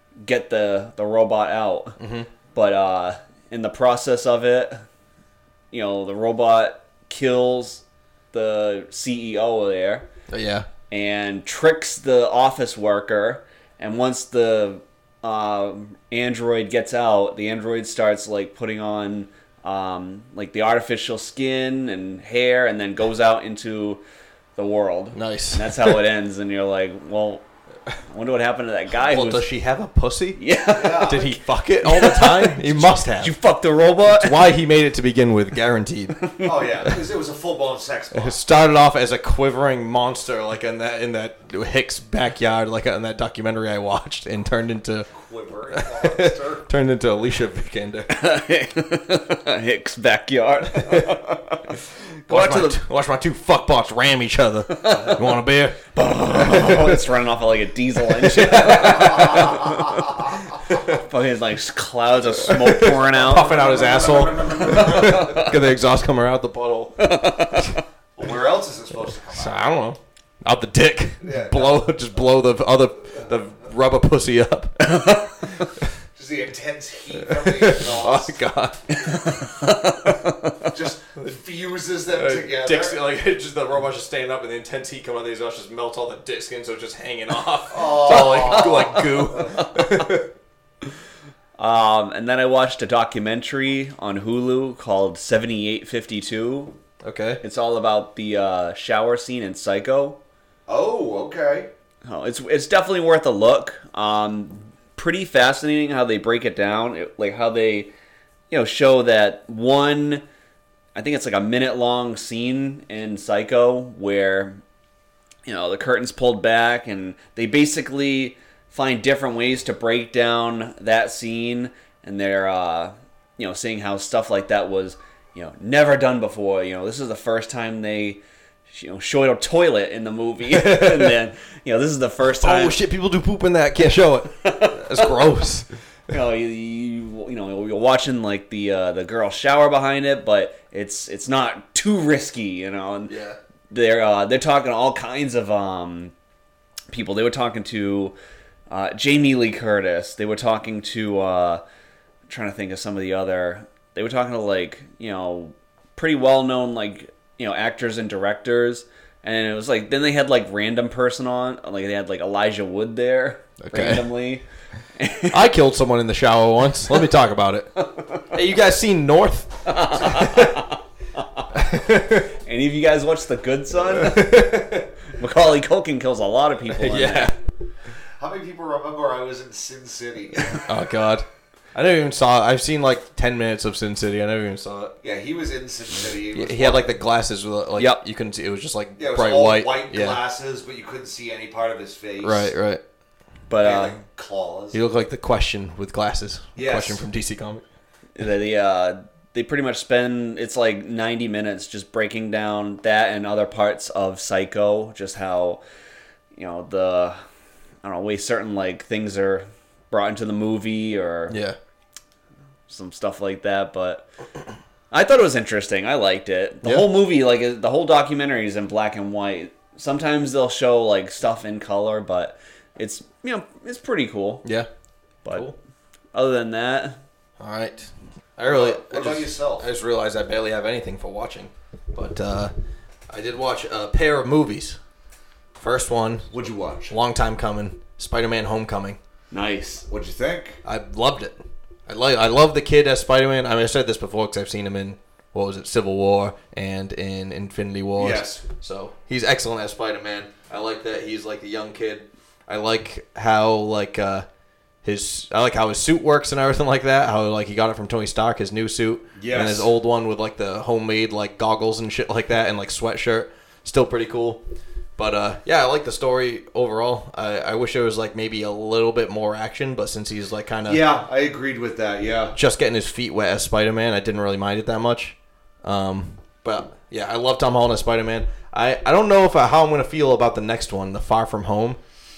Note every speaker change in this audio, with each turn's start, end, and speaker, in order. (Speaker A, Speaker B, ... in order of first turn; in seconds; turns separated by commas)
Speaker A: 0.2-2.0, Speaker B: 2.0-2.3, Speaker A: 2.5-4.8, Speaker A: 5.7-10.1, Speaker B: 10.3-10.7, Speaker A: 10.9-24.0, Speaker A: 24.6-27.4, Speaker B: 25.1-26.0, Speaker A: 28.1-29.5, Speaker B: 29.0-33.4, Speaker A: 30.4-34.5, Speaker C: 30.7-31.3, Speaker B: 34.0-36.3, Speaker C: 36.4-38.4, Speaker B: 38.1-45.1, Speaker C: 45.1-46.7, Speaker B: 45.7-48.1, Speaker A: 48.1-52.8, Speaker B: 50.8-51.2, Speaker B: 52.3-57.0, Speaker A: 54.8-55.2, Speaker A: 55.9-63.5, Speaker B: 58.1-59.8, Speaker C: 59.2-59.7, Speaker B: 60.7-61.0, Speaker B: 62.5-67.7, Speaker C: 63.1-65.5, Speaker A: 64.6-65.6, Speaker A: 67.0-67.8, Speaker C: 68.2-69.6, Speaker B: 69.3-74.9, Speaker C: 71.2-71.9, Speaker A: 74.8-75.5, Speaker C: 76.1-78.4, Speaker B: 77.2-79.3, Speaker A: 78.9-80.7, Speaker C: 80.7-83.0, Speaker B: 82.2-90.3, Speaker C: 87.7-89.4, Speaker A: 88.1-89.5, Speaker A: 91.6-96.8, Speaker B: 97.0-97.4, Speaker A: 97.4-100.2, Speaker C: 100.7-101.7, Speaker A: 102.0-107.9, Speaker A: 108.5-110.2, Speaker A: 110.9-114.6, Speaker A: 115.4-132.8, Speaker B: 130.5-131.2, Speaker B: 132.4-135.7, Speaker A: 134.4-135.3, Speaker A: 136.1-143.1, Speaker B: 143.1-143.4, Speaker A: 143.7-146.1, Speaker A: 146.9-148.1, Speaker A: 148.7-151.6, Speaker A: 152.3-164.4, Speaker B: 163.6-164.1, Speaker A: 164.9-165.5, Speaker B: 165.3-170.6, Speaker A: 167.8-168.3, Speaker A: 169.7-171.5, Speaker B: 171.5-172.3, Speaker A: 172.3-177.3, Speaker B: 174.0-174.9, Speaker B: 176.8-177.3, Speaker C: 178.2-180.6, Speaker B: 180.5-184.9, Speaker C: 185.0-187.0, Speaker B: 186.3-190.2, Speaker C: 189.0-192.5, Speaker B: 192.2-192.8, Speaker A: 193.5-193.9, Speaker C: 193.6-194.8, Speaker B: 194.7-197.6, Speaker C: 196.5-197.0, Speaker A: 198.2-205.6, Speaker A: 206.3-207.2, Speaker A: 207.8-211.4, Speaker B: 211.3-211.6, Speaker A: 212.7-214.1, Speaker A: 214.9-224.4, Speaker B: 216.6-216.9, Speaker A: 225.2-225.5, Speaker A: 226.1-227.0, Speaker B: 227.4-232.5, Speaker C: 228.5-229.7, Speaker B: 233.1-234.8, Speaker B: 235.6-239.0, Speaker C: 236.3-236.9, Speaker A: 239.3-239.8, Speaker C: 239.9-240.6, Speaker B: 240.6-241.3, Speaker B: 241.9-254.2, Speaker C: 248.0-248.4, Speaker B: 254.8-264.4, Speaker C: 259.1-259.7, Speaker B: 265.0-270.8, Speaker C: 270.7-272.4, Speaker B: 272.3-281.8